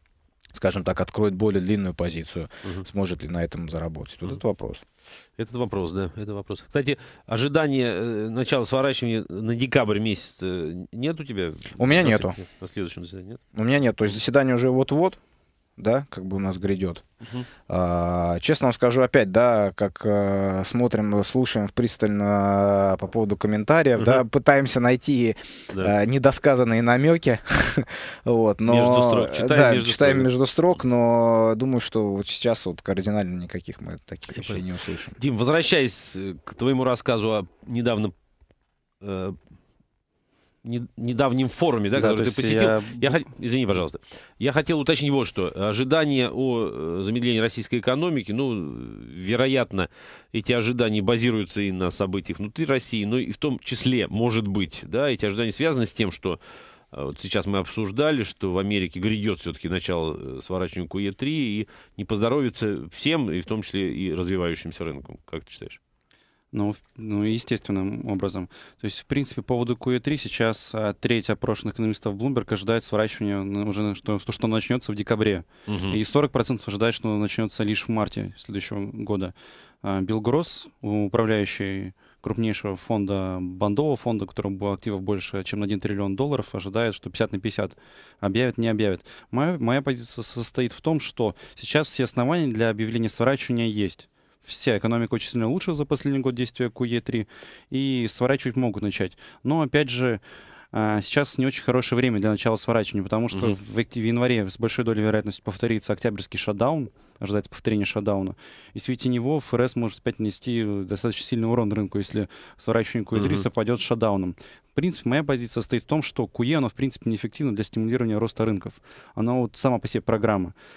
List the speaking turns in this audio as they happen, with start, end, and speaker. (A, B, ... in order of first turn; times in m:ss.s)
0:00.5-0:04.8 A
0:05.4-0:13.4 B
0:11.8-0:12.4 A
0:13.5-0:15.2 A
0:15.8-0:17.0 A
0:17.7-0:35.2 A
0:28.6-0:30.3 B
0:34.3-0:34.6 B
0:35.2-0:38.1 B
0:39.0-0:39.4 B
0:40.6-0:56.4 B
0:41.9-0:43.2 C
0:56.9-1:05.8 B
1:06.5-1:40.2 C
1:15.7-1:16.0 B
1:40.7-2:00.5 C
1:53.1-1:53.4 B